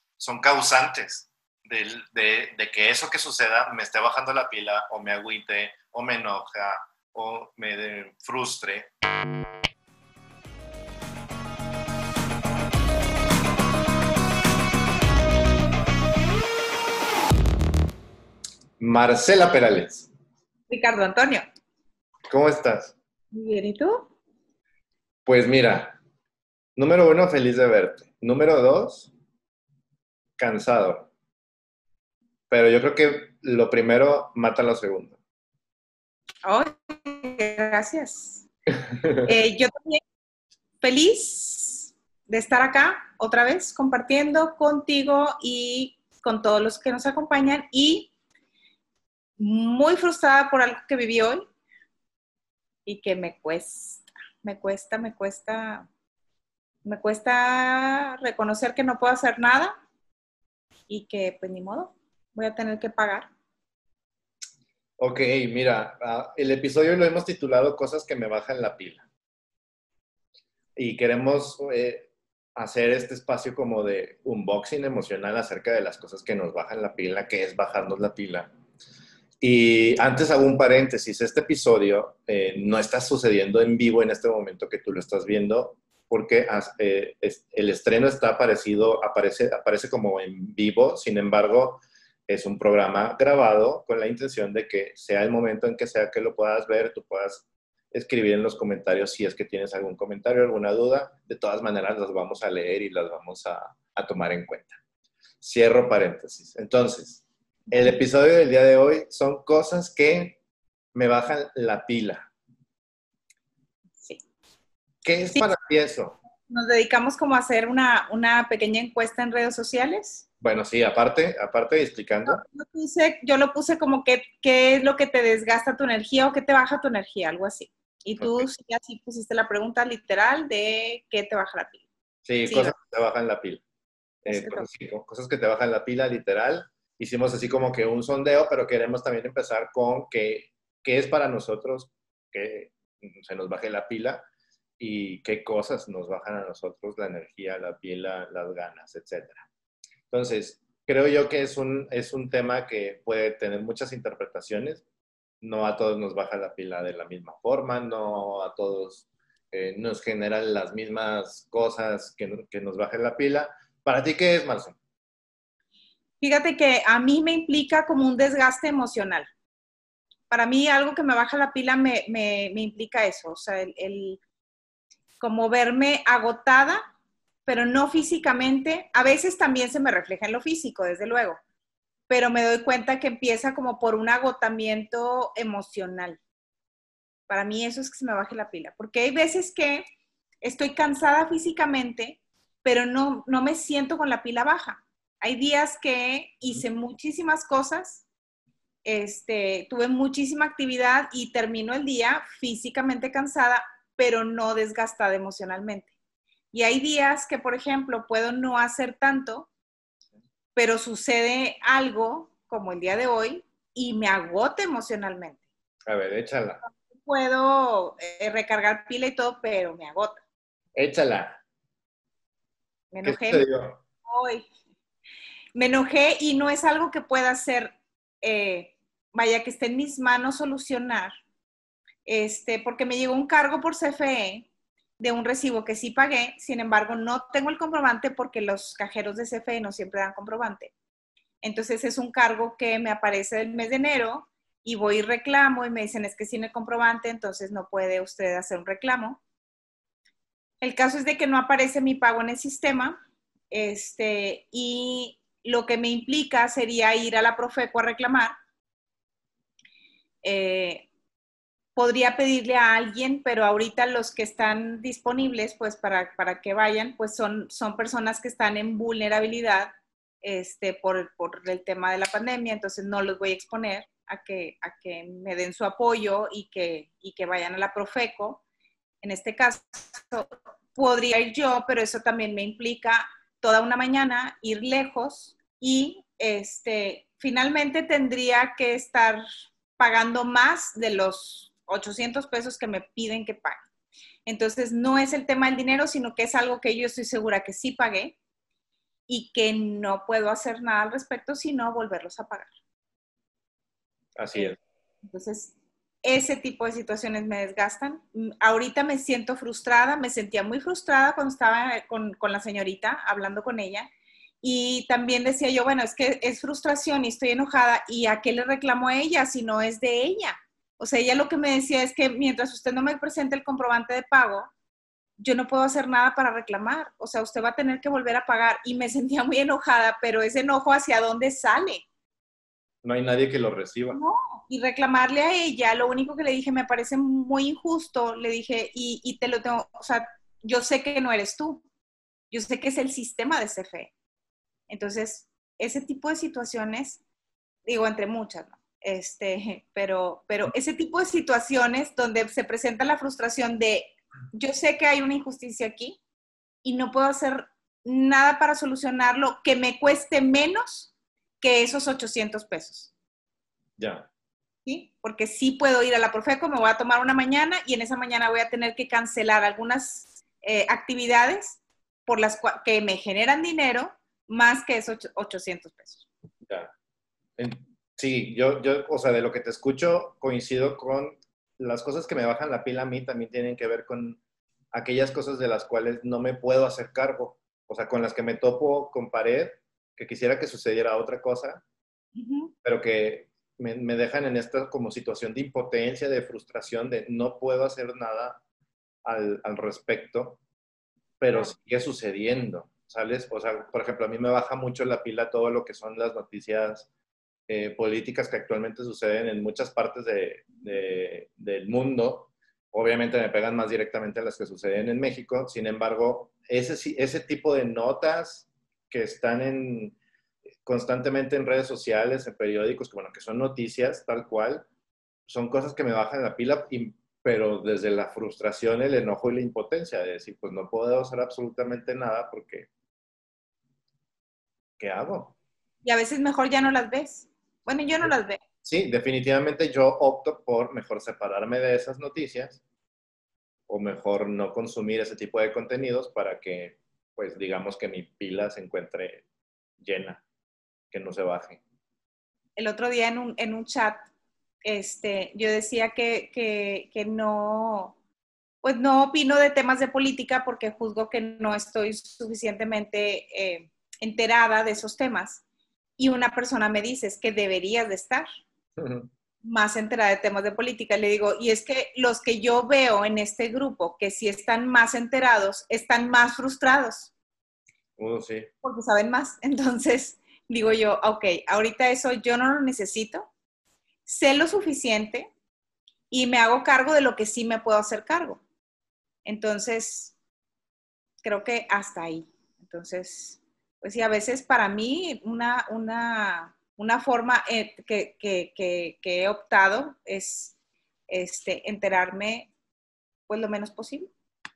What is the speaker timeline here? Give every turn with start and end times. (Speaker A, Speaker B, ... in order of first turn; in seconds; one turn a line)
Speaker A: 0.2-8.9
Speaker A: 18.8-20.1
Speaker B: 20.7-21.4
Speaker A: 22.3-22.9
Speaker B: 23.3-24.1
Speaker A: 25.3-26.0
Speaker A: 26.8-29.1
Speaker A: 30.4-31.1
Speaker A: 32.5-35.2
Speaker B: 36.4-38.5
Speaker B: 39.2-40.0
Speaker B: 40.8-48.1
Speaker B: 49.4-51.5
Speaker B: 52.9-55.9
Speaker B: 56.8-59.8
Speaker B: 60.9-63.3
Speaker A: 65.0-69.0
Speaker A: 70.8-78.5
Speaker A: 79.4-104.8
Speaker A: 105.4-110.4
Speaker A: 111.0-112.3
Speaker A: 115.0-116.2
Speaker B: 116.5-120.2
Speaker A: 120.4-122.4
Speaker B: 122.3-131.8
Speaker A: 128.2-128.5
Speaker A: 132.2-133.6
Speaker B: 132.4-132.7
Speaker A: 134.2-144.2
Speaker B: 134.3-134.7
Speaker A: 144.8-149.4
Speaker A: 150.1-154.8
Speaker A: 155.4-164.8
Speaker B: 166.2-169.3
Speaker B: 170.3-174.2
Speaker B: 175.2-176.9
Speaker B: 177.4-181.4
Speaker B: 182.1-186.2
Speaker B: 187.3-189.8
Speaker B: 190.4-198.0
Speaker B: 198.8-205.9
Speaker B: 206.5-209.5
Speaker B: 210.6-215.4
Speaker A: 215.9-216.6
Speaker B: 216.8-220.2
Speaker A: 220.8-221.4
Speaker B: 222.9-223.4
Speaker A: 223.0-223.8
Speaker B: 224.0-224.4
Speaker B: 225.5-231.1
Speaker B: 232.1-240.7
Speaker B: 241.4-249.2
Speaker B: 250.6-253.0
Speaker B: 253.5-258.3
Speaker B: 260.2-260.9
Speaker B: 261.8-278.4
Speaker B: 279.0-289.2
Speaker B: 289.8-293.6
Speaker B: 294.2-298.2
Speaker B: 299.1-302.5
Speaker A: 304.2-304.6
Speaker B: 304.4-313.9
Speaker B: 314.4-324.5
Speaker B: 325.2-331.8
Speaker A: 332.8-334.0
Speaker B: 333.9-341.6
Speaker B: 342.3-343.9
Speaker B: 344.7-347.0
Speaker B: 347.7-356.0
Speaker B: 356.6-360.9
Speaker B: 361.4-362.9
Speaker A: 363.8-364.1
Speaker B: 364.7-376.1
Speaker A: 376.5-376.7
Speaker A: 377.4-384.2
Speaker A: 384.7-391.6
Speaker B: 392.2-392.5
Speaker A: 392.6-398.4
Speaker A: 399.1-400.4
Speaker A: 401.2-406.9
Speaker A: 407.5-420.0
Speaker A: 420.7-424.6
Speaker A: 425.3-432.7
Speaker A: 434.8-435.4
Speaker B: 435.8-438.4
Speaker A: 438.0-442.6
Speaker A: 443.7-449.2
Speaker A: 449.8-450.2
Speaker A: 450.9-451.6
Speaker B: 452.6-454.1
Speaker B: 454.6-457.9
Speaker B: 458.6-465.4
Speaker B: 466.0-468.2
Speaker A: 468.8-469.1
Speaker B: 469.4-477.1
Speaker A: 478.0-478.5
Speaker B: 478.6-483.3
Speaker B: 484.1-485.3
Speaker B: 486.1-488.4
Speaker B: 489.2-490.1
Speaker B: 491.2-500.5
Speaker B: 501.1-502.5
Speaker B: 503.3-504.1